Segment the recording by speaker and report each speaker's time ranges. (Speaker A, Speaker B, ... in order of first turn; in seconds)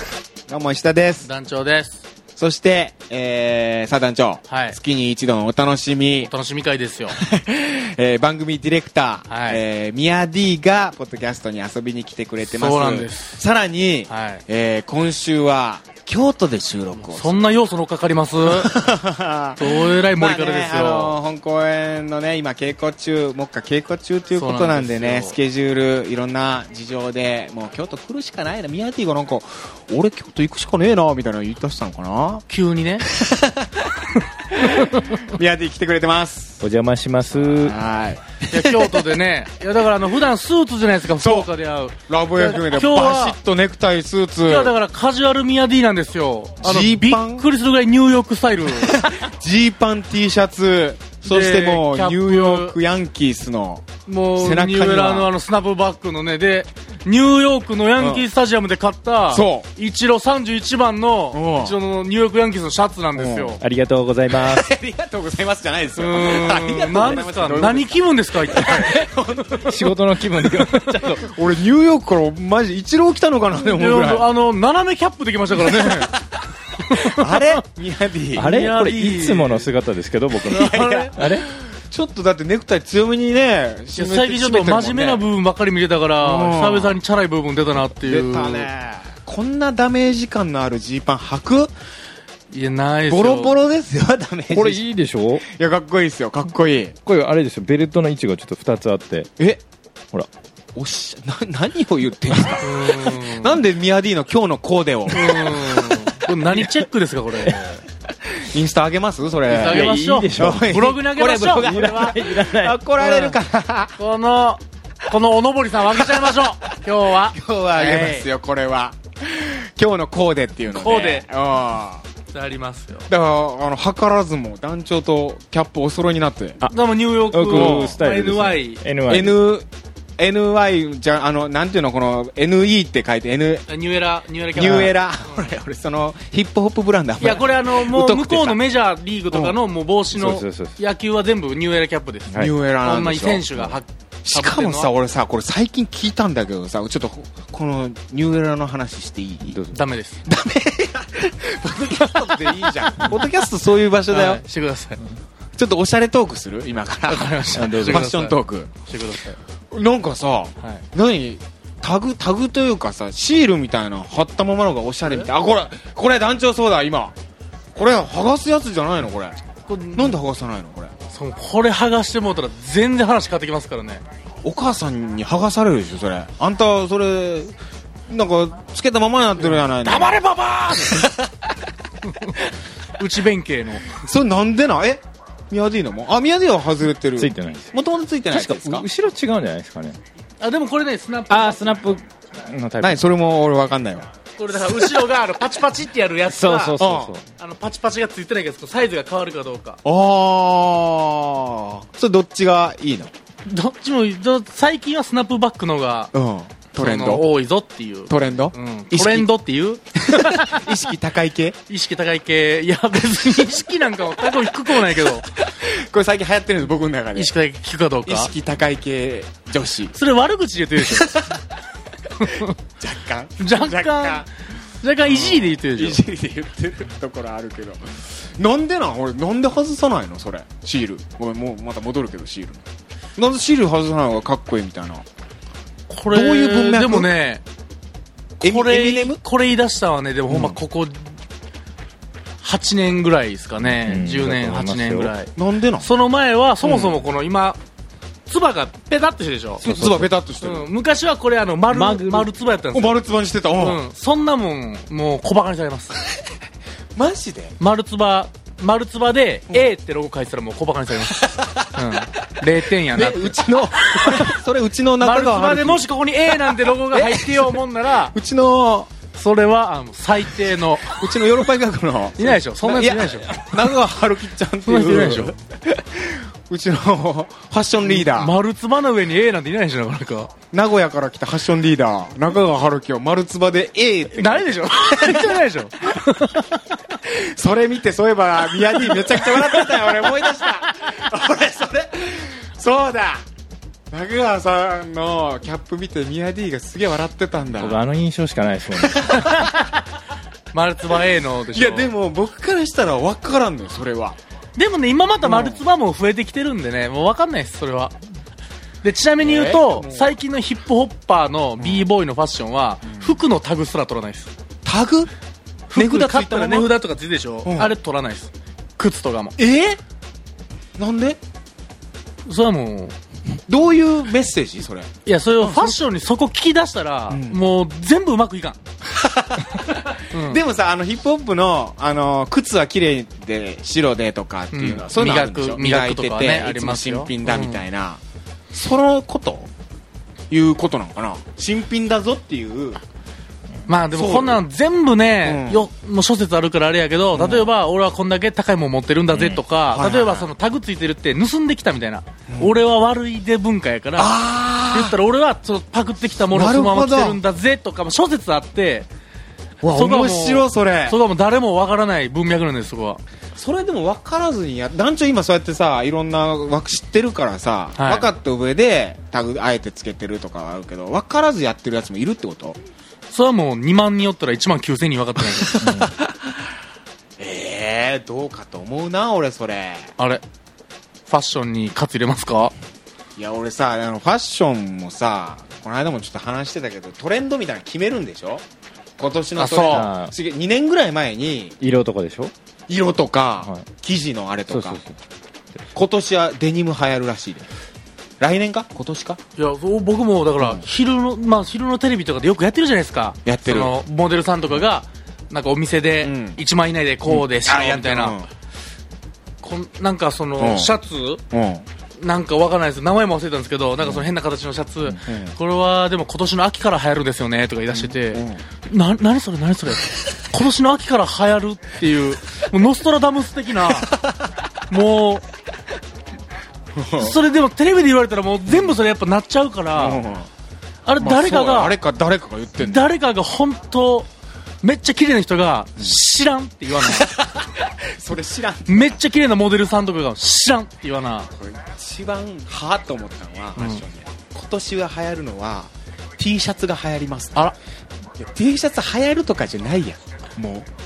Speaker A: 0.5-1.3, 2.4-6.3, 7.1-17.4, 18.5-32.4, 33.0-36.6, 37.4-39.0, 41.2-41.5, 42.0-44.7, 46.6-47.5, 48.8-55.3, 58.0-58.2, 59.3-59.7, 61.3-61.8, 63.1-63.6, 64.3-67.9, 68.5-69.9, 71.2-74.2, 75.7-76.2, 76.9-78.7, 80.5-85.2, 86.2-87.0, 88.0-91.7, 93.1-94.8, 95.4-97.0, 100.8-105.8, 108.3-114.0, 116.0-116.8, 117.3-122.0, 123.1-126.6, 127.5-128.0, 129.1-129.7, 130.2-133.7, 134.6-138.6, 142.4-149.6, 150.2-154.4, 155.6-158.7, 159.7-167.2, 167.8-169.4, 169.9-170.9, 174.4-177.6, 178.1-181.5, 183.9-188.9, 192.8-194.1, 196.8-197.1, 199.8-203.1, 206.1-207.3, 208.1-209.3, 210.0-211.6, 215.4-217.3, 218.1-220.0, 220.9-221.4, 222.2-224.3, 225.1-232.6, 233.2-235.1, 236.1-237.1, 238.4-239.2, 245.4-245.9, 246.6-247.0, 249.6-250.7, 252.7-253.8, 257.0-257.6, 261.2-261.7, 262.9-265.9, 266.4-267.6, 268.1-268.9, 270.9-278.3, 280.5-285.4, 287.0-293.3, 293.9-297.8, 298.8-299.4, 301.5-304.2, 305.2-305.6, 309.2-310.1, 311.6-311.9, 312.9-313.2, 314.6-315.1, 315.7-316.7, 317.5-317.7, 319.4-319.8, 320.8-321.2, 323.5-325.8, 327.1-327.4, 328.9-338.0, 338.5-339.5, 340.3-342.8, 343.9-344.4, 345.2-345.6, 347.1-347.5, 349.1-350.3, 352.3-352.6, 354.0-355.0, 356.3-357.2, 359.6-361.0, 363.3-372.6, 375.4-376.4, 377.2-379.9, 383.2-388.4, 389.0-391.6, 392.7-394.8, 395.7-397.5, 398.2-399.2, 400.4-400.6, 403.2-403.8, 406.0-406.4, 407.1-408.3, 410.4-410.7, 411.3-411.6, 415.0-415.3, 417.7-418.4, 426.8-427.2, 429.8-430.3, 431.0-432.8, 436.9-439.0, 441.4-447.5, 448.2-450.7
Speaker B: 1.2-2.0, 4.5-4.8, 6.3-7.2, 9.3-9.6, 12.4-13.4, 14.1-14.4, 17.0-18.9, 19.6-21.2, 24.4-25.4, 32.5-33.1, 38.5-43.4, 44.5-49.0, 51.2-52.8, 54.1-63.6, 66.0-69.0, 73.6-76.1, 76.9-77.6, 78.3-79.6, 80.5-81.1, 84.0-88.7, 92.5-93.5, 102.6-103.6, 105.1-107.8, 109.5-112.1, 113.0-113.4, 114.0-118.3, 120.7-121.2, 122.3-123.1, 126.7-128.8, 133.7-135.4, 137.2-144.9, 149.7-150.2, 152.1-153.2, 154.1-155.0, 157.1-159.4, 169.7-170.2, 171.1-174.0, 182.1-182.4, 183.0-183.9, 190.4-192.0, 194.4-196.8, 197.4-199.8, 203.5-206.1, 206.8-210.8, 211.7-215.3, 217.2-218.3, 219.9-221.2, 222.2-222.5, 223.4-224.3, 224.8-226.0, 235.9-237.4, 238.4-241.1, 242.4-247.6, 248.3-249.7, 250.4-253.0, 253.6-256.0, 257.6-264.4, 265.0-268.1, 269.1-271.2, 272.2-273.4, 274.6-275.3, 277.8-280.3, 284.2-286.6, 288.8-289.5, 299.1-299.6, 300.5-301.9, 304.6-307.9, 308.8-314.3, 315.7-319.4, 322.3-322.9, 325.1-328.6, 330.1-330.4, 334.5-337.6, 343.7-354.1, 354.7-358.9, 359.7-363.0, 367.8-368.1, 373.1-375.6, 381.1-382.5, 389.4-389.9, 399.4-408.2, 409.4-411.2, 412.0-423.9, 424.7-425.2, 427.0-430.0, 430.9-431.7, 432.6-434.1, 434.6-437.1, 438.7-441.3
Speaker C: 36.6-37.8, 63.6-64.7, 69.7-71.3, 78.4-81.5, 94.5-95.4, 97.1-99.3, 106.5-106.8, 109.7-110.7, 111.6-112.8, 126.6-129.4, 140.2-140.7, 157.5-158.1, 180.0-181.1, 187.2-187.7, 188.3-190.0, 191.3-193.0, 196.3-197.3, 243.6-245.1, 249.7-250.1, 251.7-252.3, 297.6-299.3, 375.6-375.9, 389.7-390.1, 391.6-392.3, 394.5-395.0